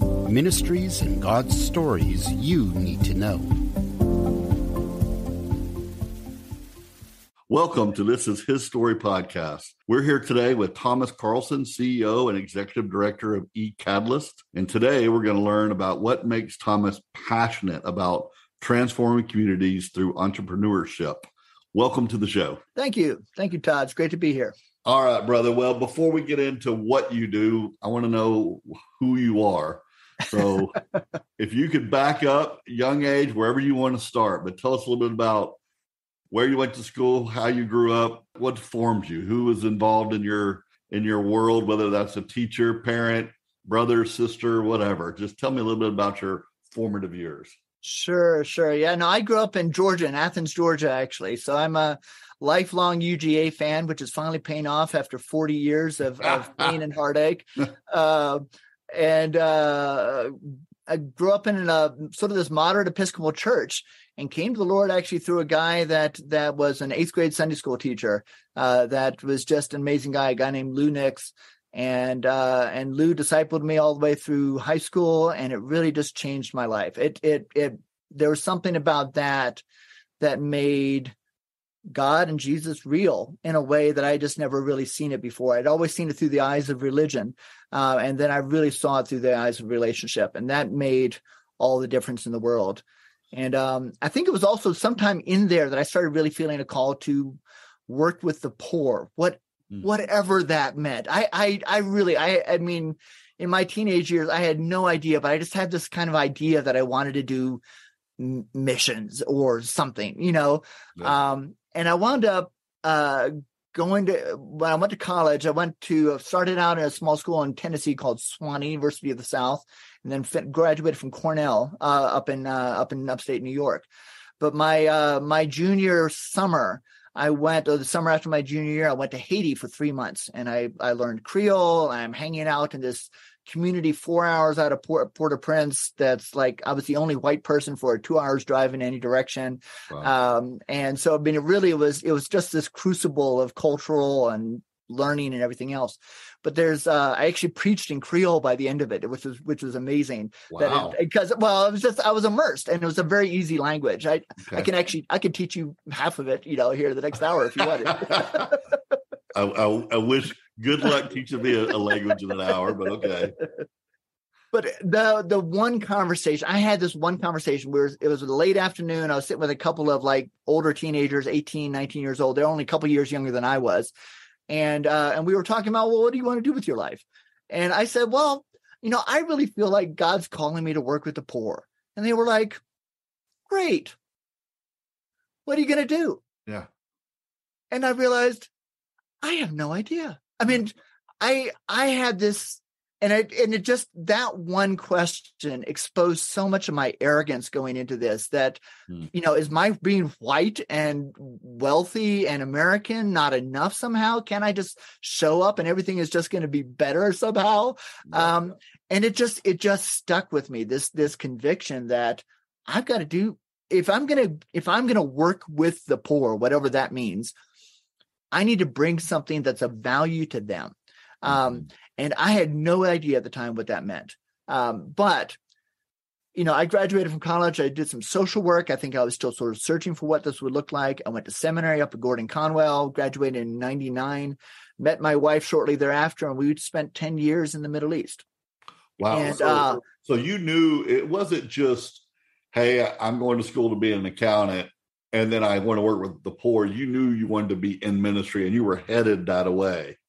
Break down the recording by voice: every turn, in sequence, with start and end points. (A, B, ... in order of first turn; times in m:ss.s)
0:00.2-0:03.6 A
0:07.5-0:22.6 B
0:22.8-0:24.5 C
0:24.8-0:30.8 B
0:31.4-0:35.6 B
0:36.3-0:47.6 B
0:47.8-1:19.6 C
0:56.3-0:56.7 B
1:20.2-1:21.1 C
1:21.9-1:47.6 C
1:48.2-2:03.9 C
2:04.4-2:38.6 C
2:30.5-2:31.0 B
2:38.0-2:38.4 B
2:39.3-2:43.4 B
2:44.5-2:53.9 C
2:54.5-3:02.6 C
3:03.5-3:04.0 C
3:05.4-3:06.2 C
3:07.7-3:08.5 C
3:09.2-3:37.3 C
3:38.3-3:45.4 C
3:46.3-3:58.2 C
3:59.0-4:10.0 B
3:59.1-3:59.8 C